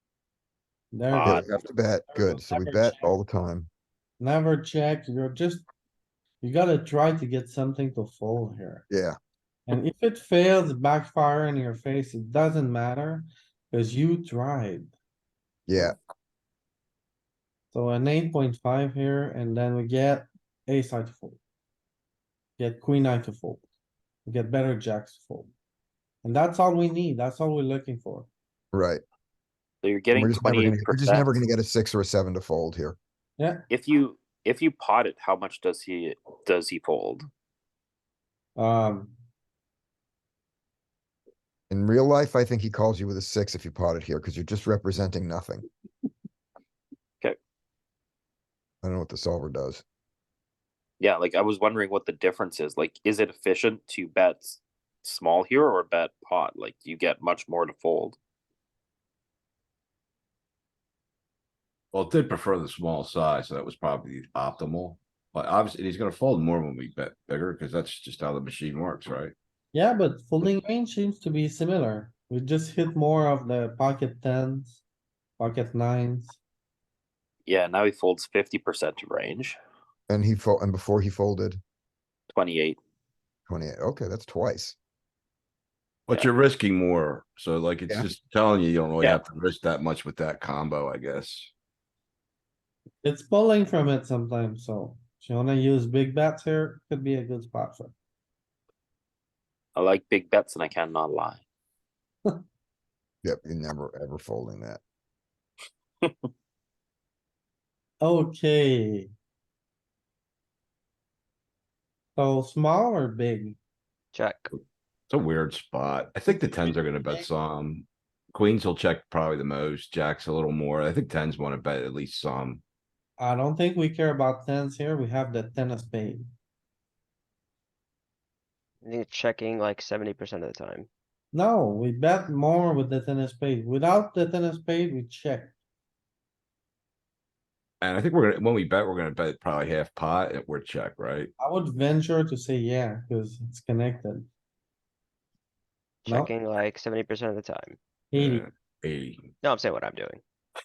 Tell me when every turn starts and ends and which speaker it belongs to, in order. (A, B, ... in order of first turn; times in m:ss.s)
0:00.9-0:01.4 A
0:01.1-0:01.6 B
0:01.2-0:03.7 C
0:02.1-0:03.1 A
0:04.2-0:05.6 A
0:06.4-0:08.8 A
0:08.9-0:09.1 C
0:09.7-0:14.9 A
0:15.7-0:15.9 C
0:17.7-0:21.4 A
0:22.6-0:23.6 A
0:24.2-0:25.5 A
0:26.2-0:28.3 A
0:28.7-0:29.0 C
0:29.8-0:31.3 B
0:30.1-0:33.0 C
0:33.4-0:33.6 A
0:33.7-0:37.3 B
0:38.6-0:39.1 A
0:41.7-0:45.6 C
0:48.8-0:49.8 C
0:51.0-0:58.2 B
1:01.9-1:09.3 D
1:09.7-1:14.8 A
1:15.4-1:16.4 A
1:17.4-1:19.6 B
1:20.1-1:21.6 C
1:22.3-1:22.8 B
1:23.5-1:24.8 C
1:26.1-1:31.5 D
1:33.0-1:37.9 A
1:39.7-1:41.4 B
1:43.2-1:44.8 C
1:46.0-1:46.3 B
1:48.0-1:49.1 A
1:52.2-1:53.6 A
1:54.1-1:54.5 E
1:55.1-2:02.6 D
1:56.3-1:57.3 A
2:03.2-2:06.3 A
2:08.8-2:10.9 E
2:11.3-2:15.5 A
2:17.8-2:21.3 D
2:21.4-2:24.3 A
2:26.0-2:27.8 E
2:28.1-2:28.4 A
2:28.1-2:29.3 D
2:29.4-2:30.2 E